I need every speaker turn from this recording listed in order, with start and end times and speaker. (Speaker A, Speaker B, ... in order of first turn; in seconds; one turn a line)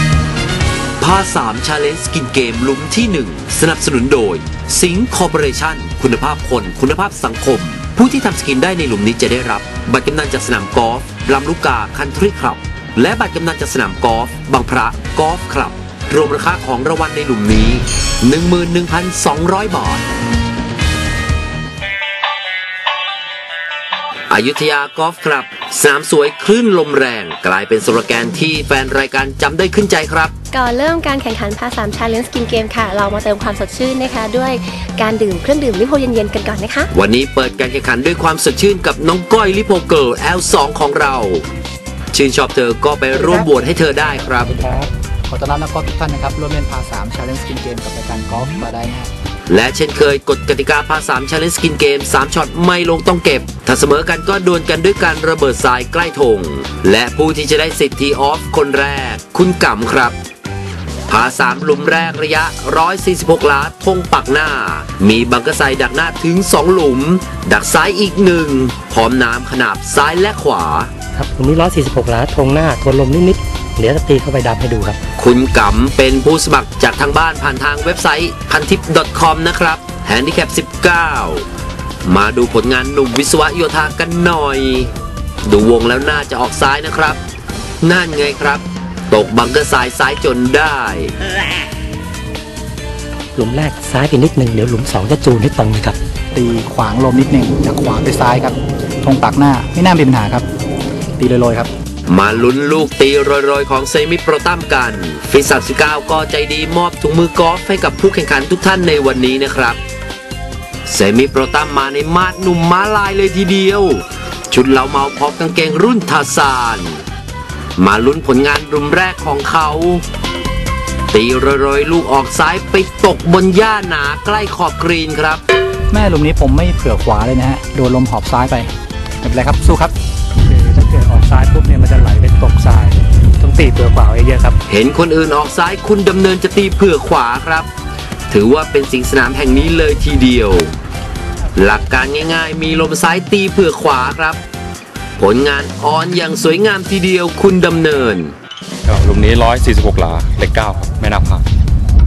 Speaker A: 1.0-20.1
Speaker A: 24.3-30.3
Speaker B: 30.5-36.9
Speaker A: 36.9-41.5
Speaker A: 42.1-44.6
Speaker C: 44.7-49.1
Speaker A: 49.5-60.2
Speaker A: 61.1-70.9
Speaker D: 71.2-75.0
Speaker A: 75.2-81.5
Speaker A: 82.0-84.9
Speaker A: 85.5-87.2
Speaker A: 87.8-91.1
Speaker D: 93.4-96.0
Speaker C: 96.3-100.5
Speaker C: 101.2-101.7
Speaker A: 102.1-109.8
Speaker A: 110.9-117.0
Speaker A: 117.8-120.0
Speaker A: 121.1-125.4
Speaker C: 125.9-128.7
Speaker C: 129.2-129.9
Speaker D: 130.5-134.6
Speaker A: 134.7-137.7
Speaker A: 138.3-140.7
Speaker A: 141.6-144.4
Speaker A: 145.2-148.3
Speaker E: 148.9-151.4